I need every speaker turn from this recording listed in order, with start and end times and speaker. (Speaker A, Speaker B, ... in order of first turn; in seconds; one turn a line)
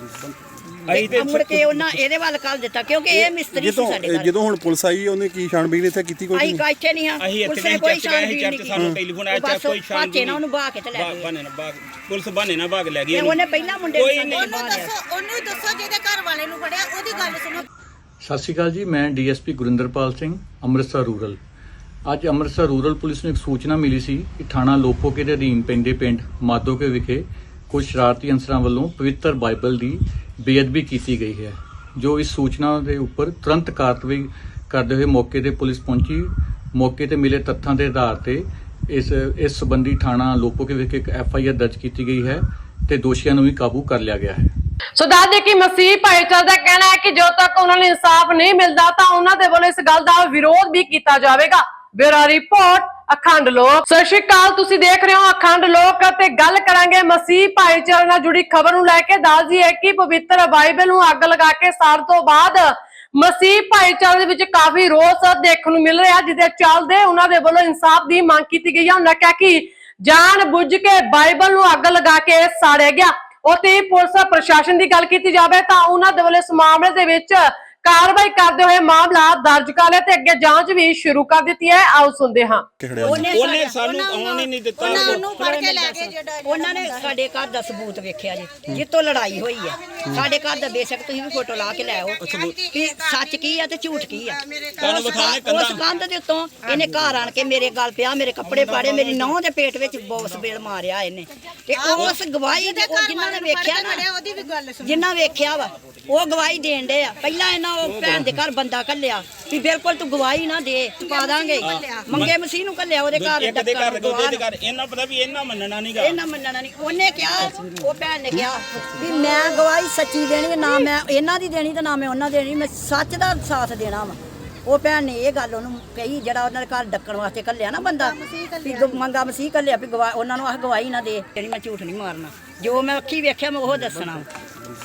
Speaker A: 0.9-1.7
Speaker B: 0.9-4.3
Speaker C: 3.1-6.6
Speaker B: 6.3-11.3
Speaker A: 7.2-13.4
Speaker B: 13.1-14.9
Speaker A: 13.9-14.6
Speaker D: 14.4-17.6
Speaker E: 18.2-21.4
Speaker E: 22.1-44.5
Speaker F: 45.0-82.7
Speaker C: 82.8-83.3
Speaker B: 83.0-83.8
Speaker A: 83.0-85.4
Speaker D: 84.0-87.1
Speaker B: 84.8-104.1
Speaker D: 91.7-93.4
Speaker A: 92.2-92.6
Speaker D: 94.4-95.3
Speaker A: 94.8-95.8
Speaker A: 98.5-99.3
Speaker D: 101.8-105.0
Speaker B: 104.8-114.4
Speaker A: 107.8-108.3
Speaker D: 111.0-112.1
Speaker A: 111.6-112.3
Speaker A: 113.1-116.2
Speaker B: 116.0-134.3
Speaker D: 128.0-129.0